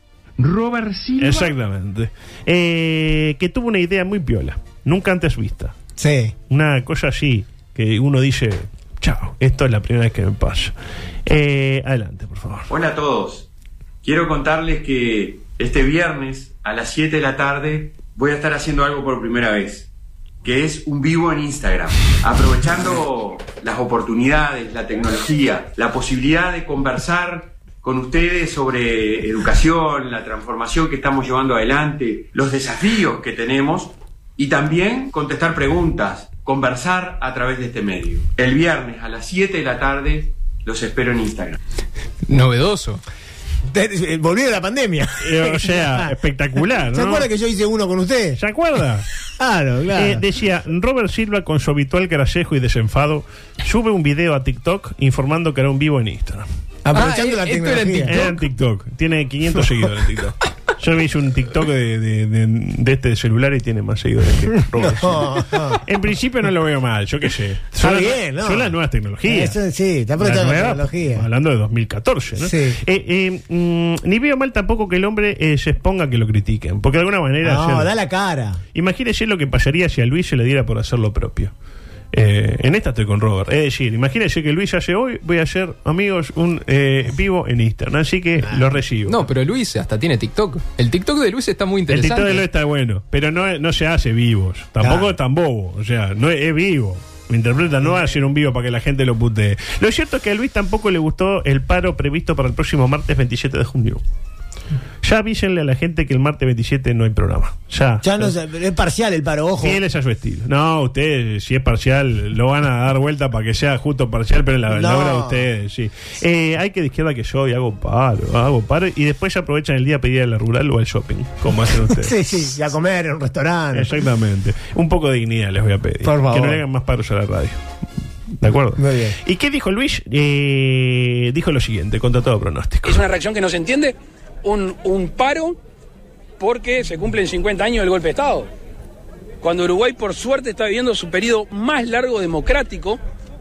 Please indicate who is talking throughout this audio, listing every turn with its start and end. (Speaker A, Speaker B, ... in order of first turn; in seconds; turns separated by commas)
Speaker A: 1.2-5.8, Speaker B: 6.0-6.3, Speaker A: 6.5-10.7, Speaker A: 11.3-12.7, Speaker C: 12.7-13.4, Speaker C: 14.0-19.9, Speaker C: 20.4-41.6, Speaker D: 42.3-43.0, Speaker B: 43.7-46.1, Speaker A: 45.2-47.3, Speaker B: 46.8-48.4, Speaker A: 48.4-49.1, Speaker B: 49.4-50.2, Speaker A: 50.0-56.5, Speaker B: 56.9-58.2, Speaker D: 56.9-58.3, Speaker A: 58.1-69.6, Speaker B: 64.6-65.8, Speaker B: 67.8-71.3, Speaker A: 70.2-77.9, Speaker B: 72.4-72.8, Speaker B: 77.4-78.6, Speaker A: 78.7-81.5, Speaker A: 82.1-89.2, Speaker D: 89.1-92.5, Speaker A: 91.9-104.0, Speaker B: 94.8-95.1, Speaker B: 97.8-98.2, Speaker A: 105.0-108.3, Speaker B: 108.0-109.8, Speaker A: 109.6-122.1, Speaker B: 114.7-115.5, Speaker B: 121.9-123.9, Speaker A: 123.7-127.6, Speaker B: 126.0-126.6, Speaker A: 128.4-133.0, Speaker B: 128.8-129.2, Speaker E: 132.8-135.6, Speaker E: 136.4-138.5, Speaker E: 139.4-143.0